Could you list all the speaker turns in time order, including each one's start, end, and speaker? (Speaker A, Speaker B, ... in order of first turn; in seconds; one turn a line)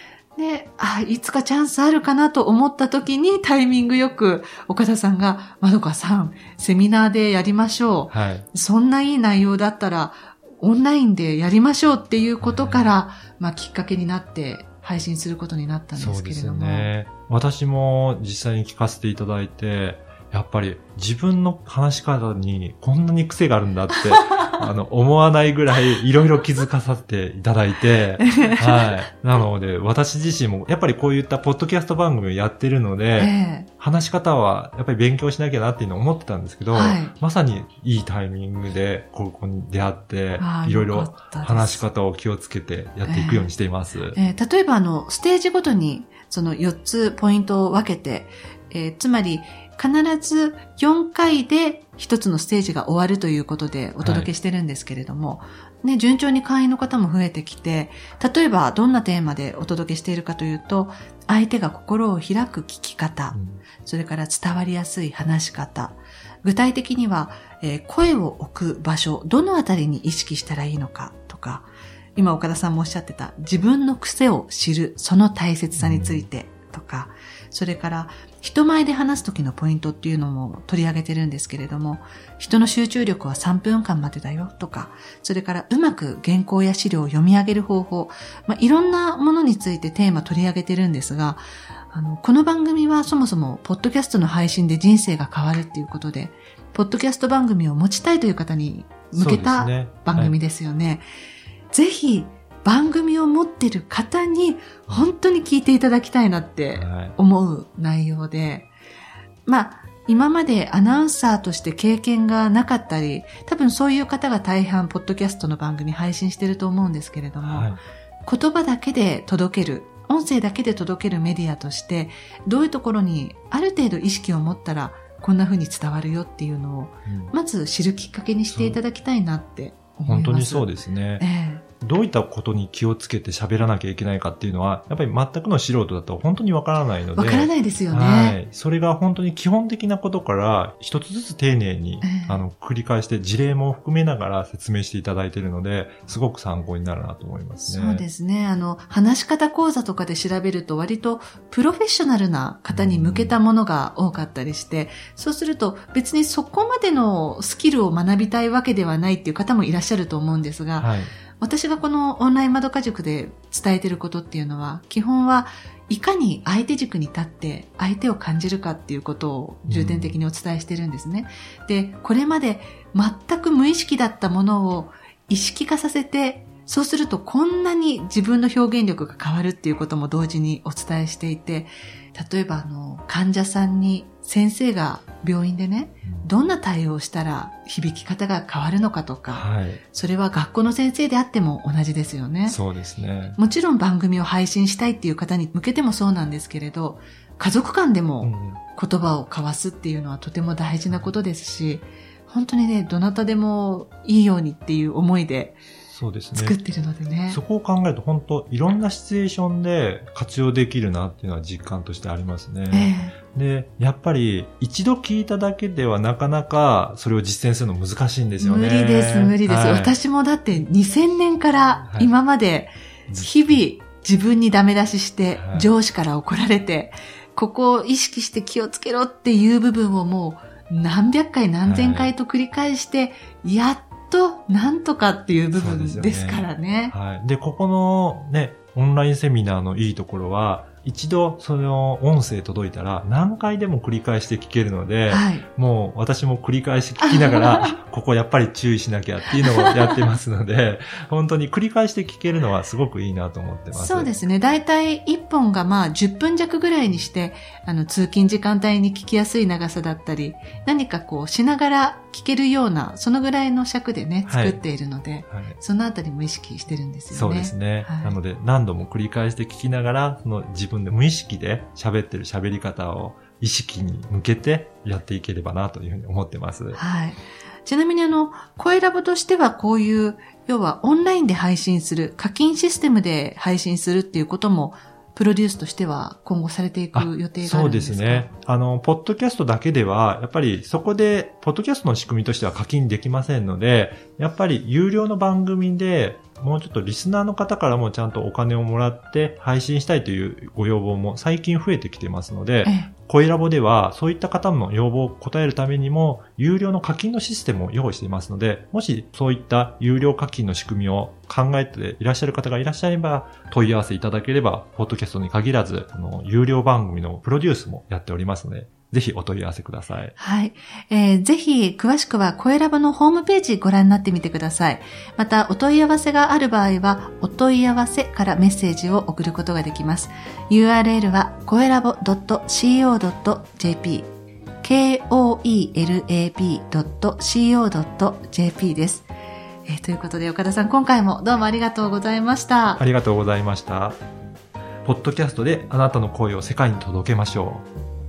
Speaker A: 0.4-16.9
Speaker B: 8.1-8.5
Speaker B: 12.4-12.9
Speaker B: 16.0-44.2
Speaker A: 28.2-28.9
Speaker A: 33.2-33.7
Speaker A: 36.7-37.1
Speaker A: 40.4-41.8
Speaker A: 43.0-43.5
Speaker A: 44.1-101.1
Speaker B: 54.0-54.3
Speaker B: 63.3-63.6
Speaker B: 75.8-76.3
Speaker B: 99.1-100.4
Speaker A: 101.7-108.7
Speaker B: 106.8-107.2
Speaker A: 109.5-117.7
Speaker B: 117.5-117.8
Speaker A: 118.2-131.7
Speaker B: 127.1-127.3
Speaker B: 128.5-128.8
Speaker B: 130.1-131.3
Speaker B: 131.8-148.1
Speaker A: 137.2-138.4
Speaker A: 142.0-142.4
Speaker A: 147.7-192.6
Speaker B: 152.7-153.4
Speaker B: 160.8-161.1
Speaker B: 169.7-170.2
Speaker B: 186.0-186.3
Speaker B: 189.3-189.8
Speaker B: 192.5-193.4
Speaker A: 193.4-205.6
Speaker B: 198.2-198.6
Speaker B: 205.9-206.6
Speaker A: 206.3-207.4
Speaker B: 207.3-220.0
Speaker A: 212.7-213.2
Speaker A: 218.4-236.9
Speaker B: 221.9-222.1
Speaker B: 223.1-223.5
Speaker B: 225.3-225.7
Speaker B: 231.6-232.1
Speaker B: 235.6-254.1
Speaker A: 245.1-245.5
Speaker A: 247.1-247.8
Speaker A: 249.4-249.7
Speaker A: 253.7-268.2
Speaker B: 264.3-264.6
Speaker B: 265.3-265.6
Speaker B: 267.1-276.8
Speaker A: 276.8-288.3
Speaker B: 286.9-320.1
Speaker A: 302.6-302.9
Speaker A: 320.2-334.1
Speaker A: 334.6-339.1
Speaker A: 339.7-342.8
Speaker B: 342.8-344.0
Speaker B: 344.8-347.7